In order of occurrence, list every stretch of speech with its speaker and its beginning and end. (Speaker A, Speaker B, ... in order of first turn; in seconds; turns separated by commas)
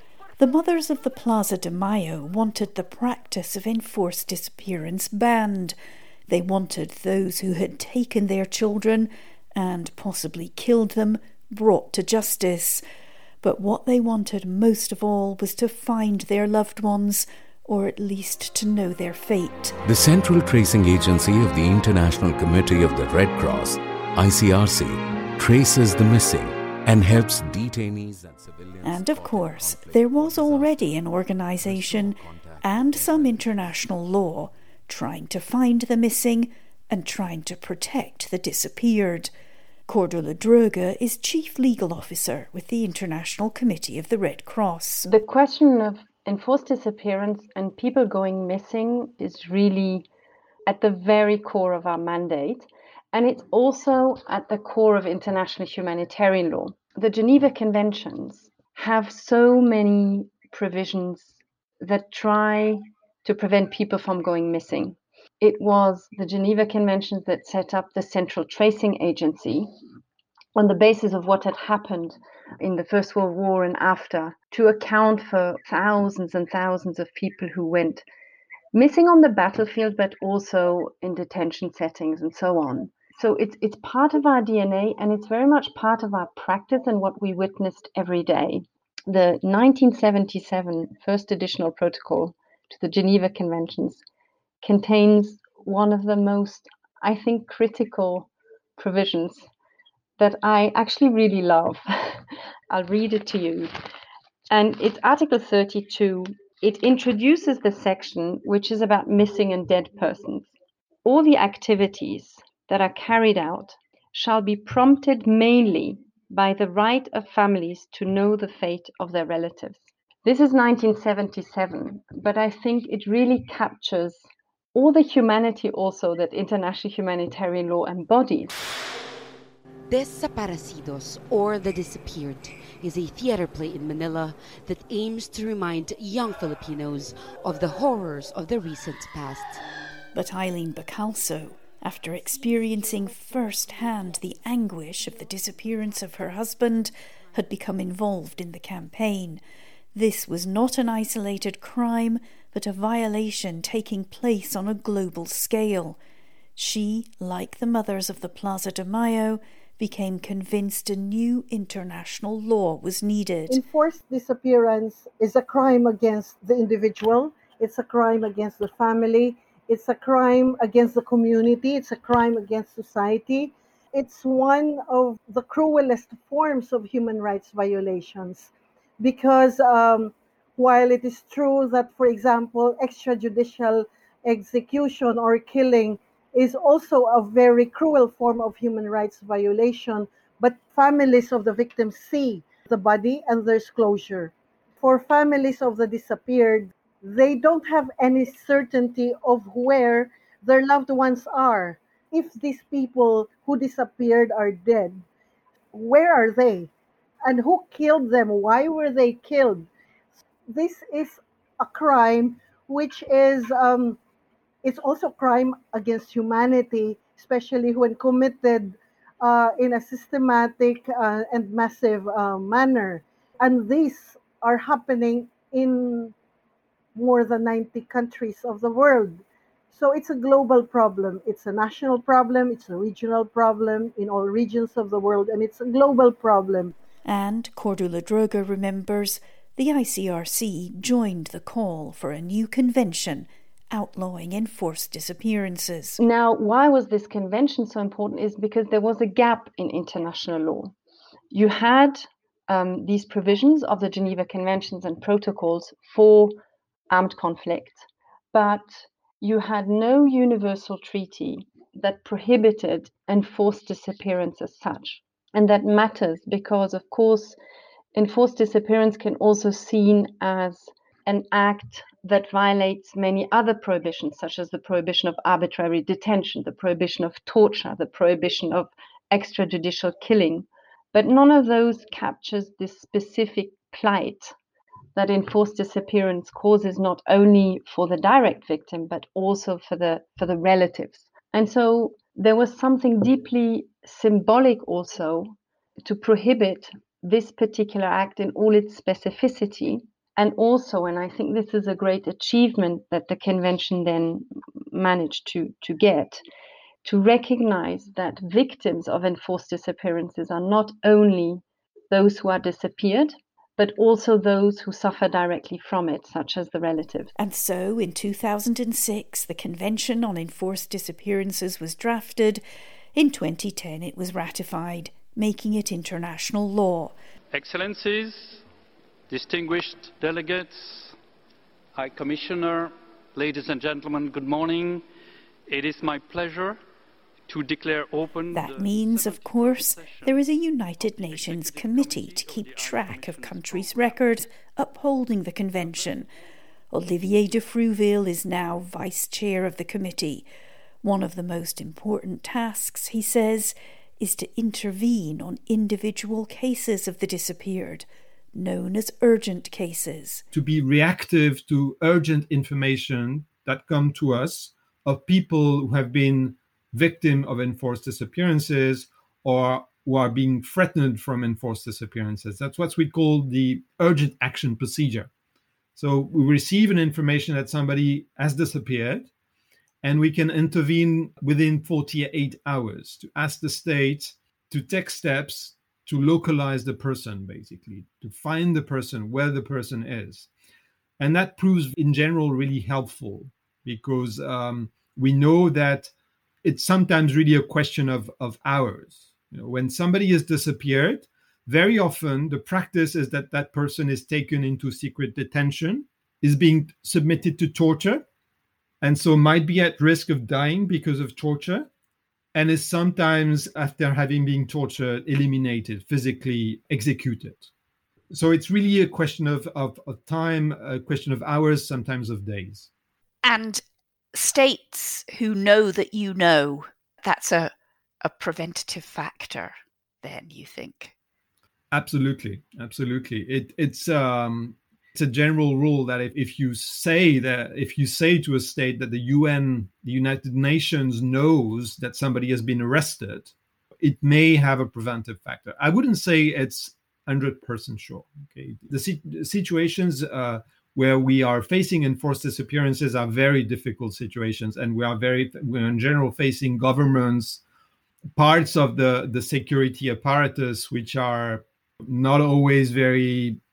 Speaker A: 0.4-5.8, Speaker A: 6.3-12.8, Speaker A: 13.4-19.8, Speaker B: 19.8-34.1, Speaker A: 28.8-39.3, Speaker A: 39.9-45.1, Speaker C: 45.1-50.1, Speaker C: 50.7-69.7, Speaker C: 70.5-78.0, Speaker C: 78.7-94.0, Speaker C: 94.6-99.5, Speaker C: 100.2-103.7, Speaker C: 104.5-110.5, Speaker C: 111.0-128.5, Speaker D: 129.9-139.6, Speaker A: 140.1-149.4, Speaker A: 149.9-156.0, Speaker A: 156.6-163.6, Speaker E: 163.5-205.0, Speaker E: 205.7-206.7, Speaker E: 207.2-209.7, Speaker E: 210.5-214.0, Speaker E: 214.6-226.1, Speaker E: 226.9-236.7, Speaker A: 237.0-246.0, Speaker C: 246.0-250.7, Speaker C: 251.3-256.3, Speaker C: 256.9-267.4, Speaker C: 267.9-284.3, Speaker C: 284.9-306.2, Speaker C: 306.8-317.1, Speaker A: 317.2-322.4, Speaker A: 322.9-326.9, Speaker F: 327.3-328.4, Speaker F: 329.1-330.9, Speaker F: 331.7-334.8, Speaker F: 335.5-336.6, Speaker F: 337.3-340.2, Speaker A: 338.3-346.1, Speaker F: 340.8-344.3, Speaker F: 345.6-346.1, Speaker A: 346.7-350.3, Speaker A: 350.8-360.2, Speaker G: 360.3-375.1, Speaker G: 375.8-379.1, Speaker G: 379.8-390.3, Speaker G: 391.0-395.9, Speaker G: 396.4-408.0, Speaker G: 408.8-411.7, Speaker G: 412.3-417.5, Speaker G: 418.1-422.7, Speaker H: 423.2-430.9, Speaker G: 431.7-457.4, Speaker G: 458.1-463.4